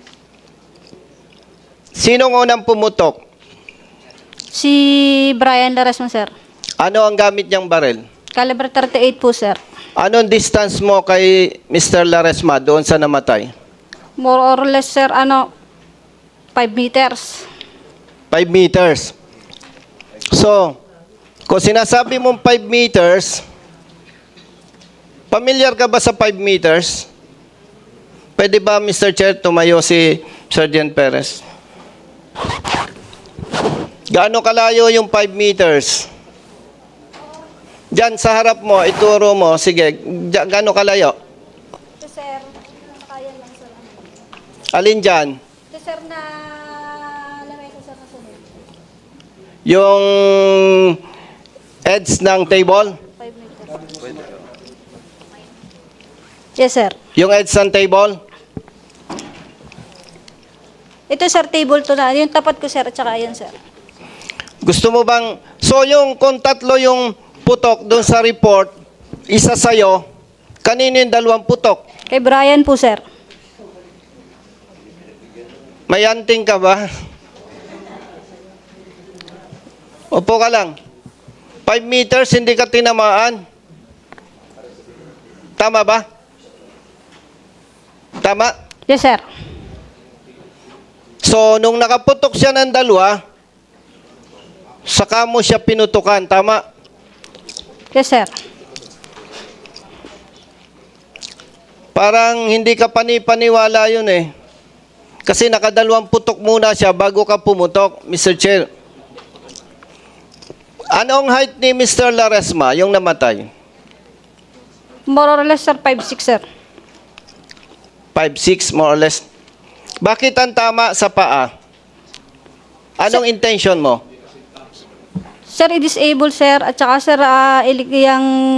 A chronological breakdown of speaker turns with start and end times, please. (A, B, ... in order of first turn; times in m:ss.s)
0:02.0-0:03.2 A
0:04.5-0:06.3 B
0:06.8-0:08.0 A
0:08.4-0:09.6 B
0:10.0-0:13.5 A
0:14.2-0:15.5 B
0:16.6-0:17.5 B
0:18.3-0:19.1 A
0:20.3-0:20.8 A
0:21.5-0:23.4 A
0:25.3-0:27.1 A
0:28.4-0:31.4 A
0:34.1-0:36.1 A
0:37.9-0:41.2 A
0:42.0-0:44.1 B
0:44.7-0:45.4 A
0:45.7-0:48.5 B
0:49.7-0:51.0 A
0:51.8-0:53.0 A
0:53.2-0:53.8 B
0:56.6-0:57.0 B
0:57.2-0:58.2 A
1:01.1-1:03.5 B
1:04.6-1:08.7 A
1:09.3-1:10.0 A
1:10.6-1:11.8 A
1:12.1-1:13.0 B
1:15.9-1:16.8 A
1:20.1-1:20.8 A
1:21.7-1:23.4 A
1:25.6-1:26.0 A
1:28.2-1:28.5 A
1:28.9-1:29.2 B
1:31.2-1:33.2 A
1:34.9-1:36.6 A
1:37.9-1:38.3 B
1:42.0-1:44.3 A
1:45.3-1:48.7 A
1:50.9-1:53.5 A
1:55.1-1:56.4 B
1:58.1-1:59.2 A
2:00.0-2:01.5 A
2:03.0-2:04.0 A
2:05.5-2:08.3 B